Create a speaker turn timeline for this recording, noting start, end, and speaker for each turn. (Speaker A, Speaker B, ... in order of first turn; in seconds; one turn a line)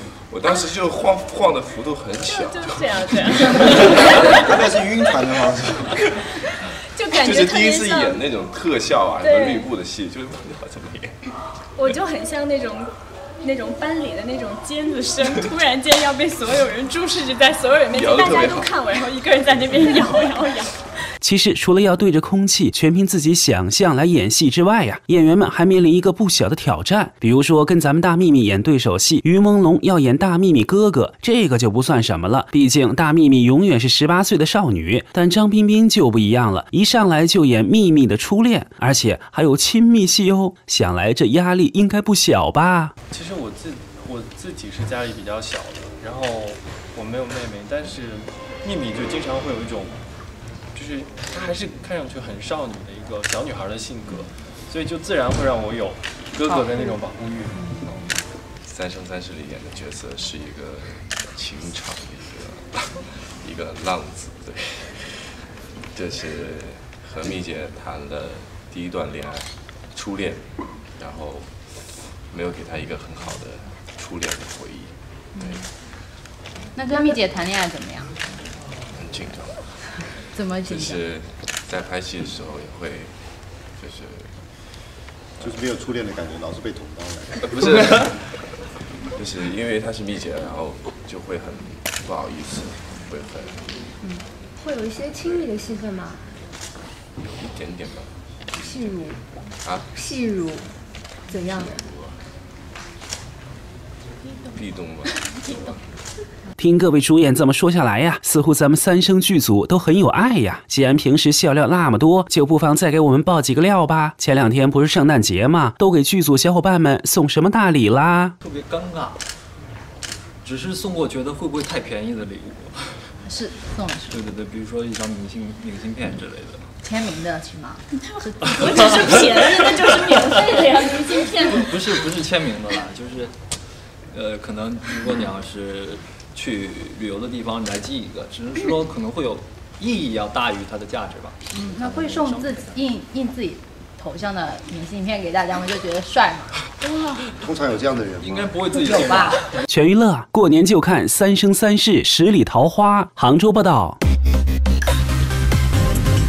Speaker A: 0.3-4.4
Speaker B: 2.3-4.4
Speaker C: 4.0-6.1
Speaker B: 6.7-8.2
Speaker A: 7.1-11.3
Speaker B: 9.2-9.7
Speaker B: 11.8-12.9
Speaker B: 13.4-20.9
Speaker A: 17.9-18.8
Speaker D: 21.2-42.9
Speaker E: 43.1-50.0
Speaker E: 50.7-58.0
Speaker F: 57.5-58.0
Speaker A: 58.6-75.7
Speaker F: 75.4-75.7
Speaker F: 76.7-78.2
Speaker A: 78.9-84.7
Speaker F: 80.3-81.0
Speaker A: 85.4-85.7
Speaker C: 85.4-87.4
Speaker A: 87.4-93.7
Speaker G: 94.0-96.3
Speaker A: 95.2-95.5
Speaker A: 97.2-98.2
Speaker G: 98.5-99.2
Speaker A: 98.7-99.0
Speaker A: 99.6-99.9
Speaker G: 100.0-100.7
Speaker G: 101.3-101.8
Speaker A: 101.3-102.2
Speaker A: 104.4-105.8
Speaker D: 106.6-118.4
Speaker H: 118.4-119.2
Speaker H: 120.4-123.2
Speaker F: 123.2-124.3
Speaker H: 124.1-126.7
Speaker F: 126.8-128.4
Speaker B: 128.0-131.7
Speaker H: 128.6-129.0
Speaker H: 131.6-133.6
Speaker H: 134.1-142.8
Speaker F: 141.5-146.6
Speaker C: 147.4-148.6
Speaker H: 148.2-149.4
Speaker F: 148.7-149.5
Speaker D: 149.7-154.0